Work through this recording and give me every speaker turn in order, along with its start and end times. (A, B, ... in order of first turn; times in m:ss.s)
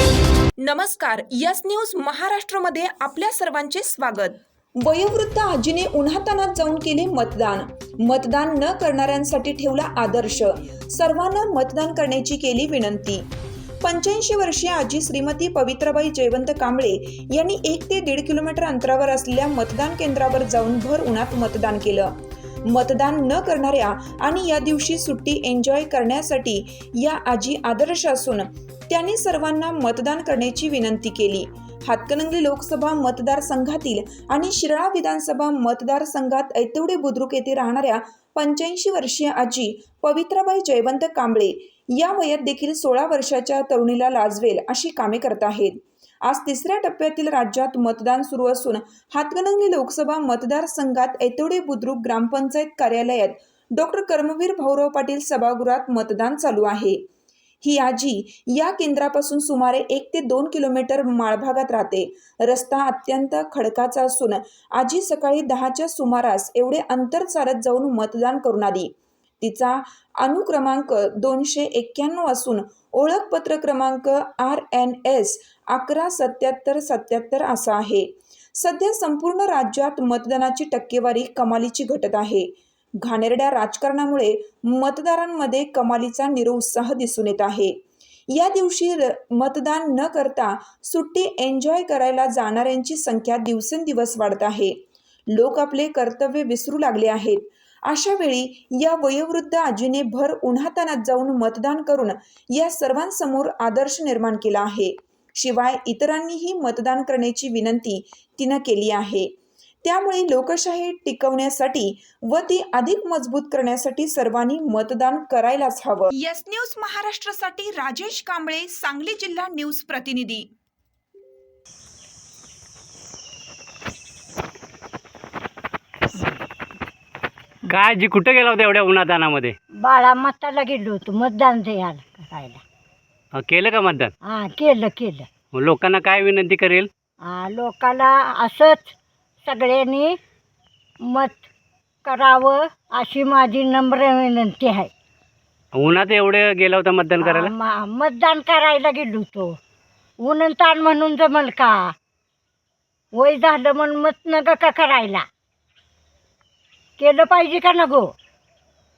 0:00.6-0:13.3 A
0:13.8-0:22.1 A
0:22.6-0:57.0 A
0:57.6-1:27.8 A
1:28.3-1:34.8 A
1:35.3-1:49.3 A
1:49.8-2:00.5 A
2:07.7-2:09.6 B
2:09.8-2:12.6 C
2:13.3-2:14.1 B
2:14.2-2:15.3 C
2:15.5-2:16.9 B
2:17.2-2:18.9 C
2:19.4-2:20.2 C
2:21.0-2:21.5 C
2:22.0-2:24.9 C
2:25.7-2:27.5 B
2:27.2-2:29.5 C
2:30.2-2:31.9 C
2:33.2-2:35.2 C
2:37.0-2:38.1 C